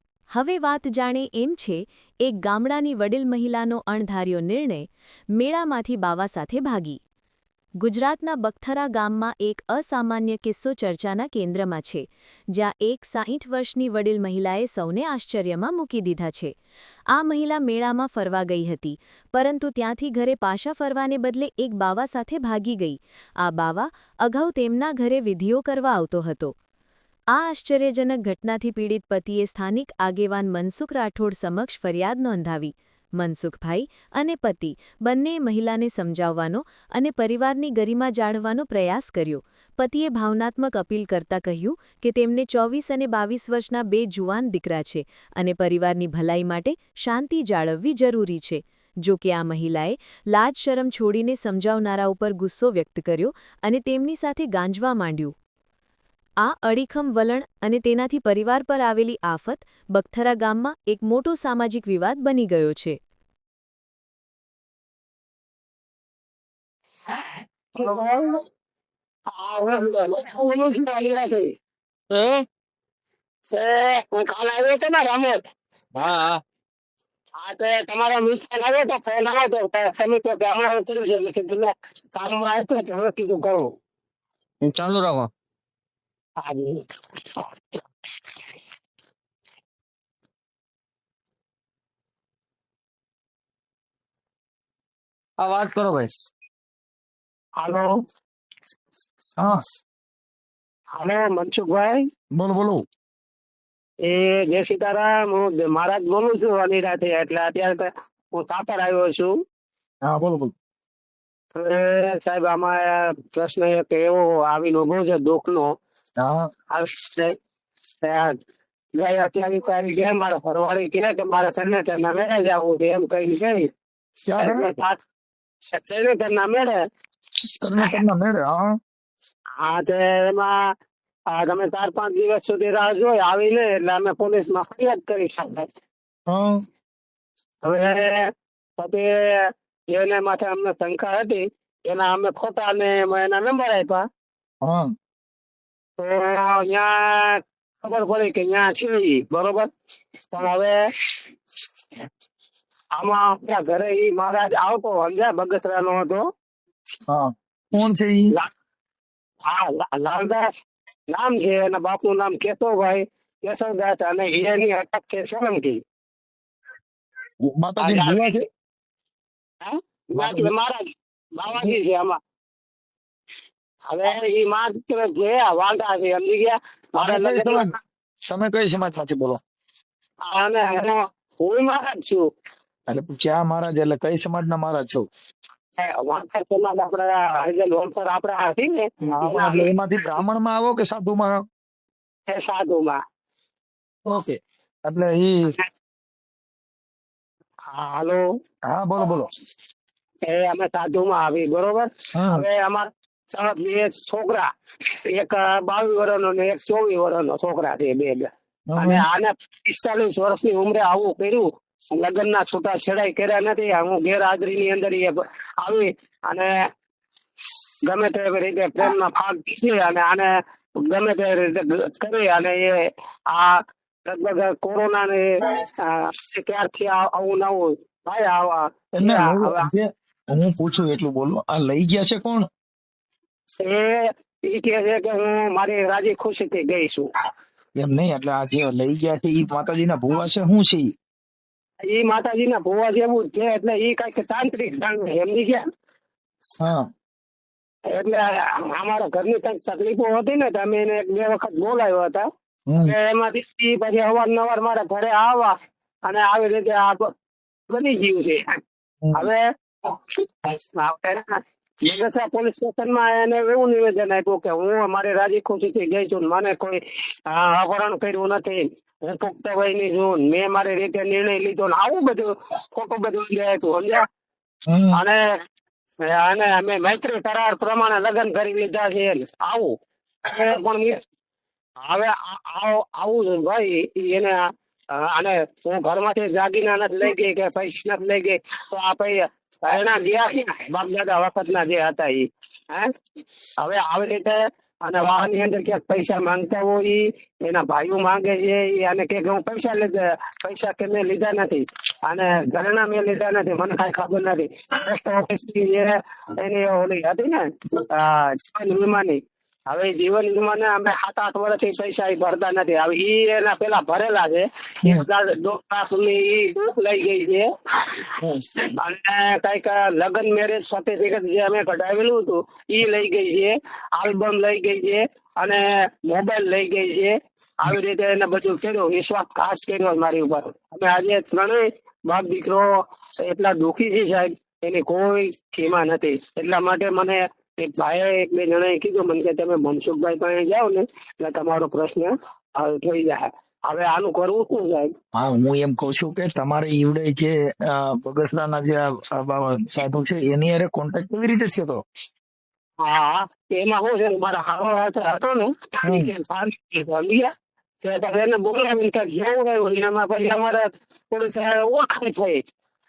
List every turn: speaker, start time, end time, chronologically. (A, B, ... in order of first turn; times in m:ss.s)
0:00.3-0:07.0 A
0:07.8-0:16.5 A
0:17.1-0:26.5 A
0:27.3-0:55.3 A
0:56.4-1:03.0 A
1:07.7-1:08.4 B
1:09.3-1:11.5 B
1:12.1-1:12.4 C
1:13.5-1:15.4 B
1:15.9-1:16.4 C
1:17.4-1:23.7 B
1:24.6-1:25.3 C
1:26.4-1:26.8 B
1:35.4-1:36.3 C
1:37.6-1:38.0 B
1:39.4-1:39.7 C
1:41.0-1:42.1 B
1:42.3-1:42.8 C
1:44.0-1:49.4 B
1:50.0-1:50.5 C
1:51.5-1:55.7 B
1:56.2-1:56.5 C
1:56.7-1:57.4 B
1:58.0-1:58.4 B
1:59.0-2:03.7 B
2:04.3-2:04.7 C
2:04.4-2:05.0 B
2:05.7-2:06.8 B
2:07.4-2:08.6 C
2:09.6-2:10.5 B
2:11.3-2:15.7 B
2:16.3-2:16.6 C
2:17.6-2:24.1 B
2:24.6-2:24.9 C
2:26.0-2:29.7 B
2:30.3-2:30.8 B
2:32.9-2:36.3 B
2:37.1-2:38.3 C
2:39.4-2:40.5 B
2:41.1-2:45.8 B
2:47.4-2:48.5 C
2:47.8-2:48.4 B
2:49.6-2:52.2 B
2:50.2-2:50.5 C
2:51.5-2:51.7 C
2:53.9-2:57.8 B
2:57.0-2:57.7 C
2:58.3-2:59.4 C
3:00.2-3:02.3 B
3:02.9-3:05.1 C
3:05.8-3:09.7 B
3:09.1-3:11.4 C
3:12.3-3:13.0 B
3:14.0-3:15.6 C
3:17.7-3:18.2 B
3:18.7-3:19.3 C
3:20.2-3:24.5 B
3:22.1-3:22.5 C
3:25.1-3:36.5 B
3:28.7-3:29.0 C
3:37.8-3:40.3 B
3:40.8-3:49.7 B
3:49.0-3:52.5 C
3:53.6-3:57.1 B
3:57.8-4:00.9 C
4:01.8-4:05.6 B
4:07.9-4:12.3 B
4:12.7-4:12.9 C
4:12.8-4:17.1 B
4:17.7-4:18.6 B
4:19.1-4:34.1 B
4:34.7-4:35.0 C
4:34.9-4:35.2 B
4:36.0-4:41.0 B
4:41.8-4:44.4 B
4:44.9-4:52.9 B
4:53.6-5:18.0 B
5:18.6-5:32.7 B
5:33.2-5:44.9 B
5:45.1-5:51.8 C
5:52.8-6:02.4 B
5:55.8-5:56.1 C